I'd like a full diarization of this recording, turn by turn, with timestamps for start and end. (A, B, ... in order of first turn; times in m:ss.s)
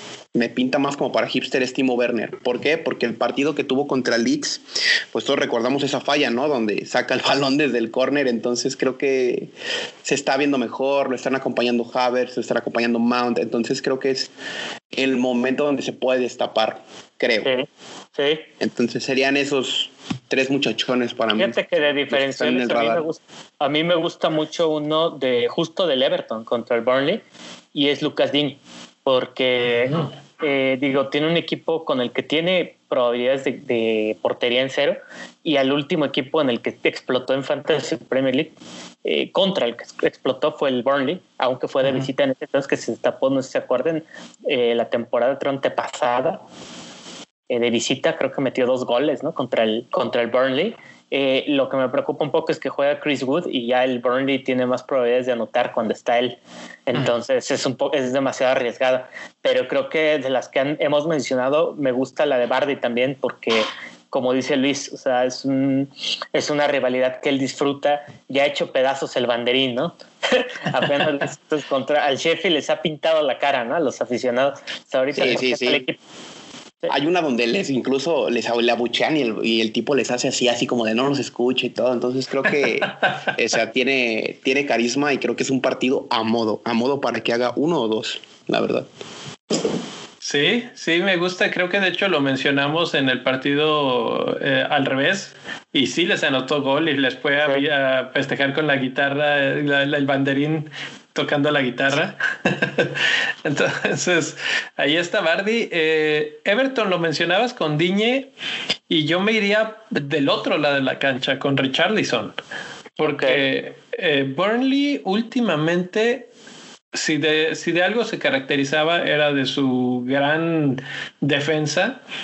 0:00.3-0:09.5 A
0:10.0-0:14.3 A
0:14.9-0:17.5 A
0:17.4-0:18.4 B
0:18.6-0:21.6 A
0:21.4-0:27.2 B
0:22.1-0:23.0 A
0:27.7-0:38.5 B
0:39.0-0:46.4 B
0:47.5-1:16.0 B
1:15.1-1:15.8 A
1:16.9-1:28.9 A
1:22.9-1:23.3 C
1:30.2-1:48.3 C
1:48.9-1:52.4 C
1:53.0-1:53.4 B
1:53.0-1:56.3 C
1:56.9-2:02.0 C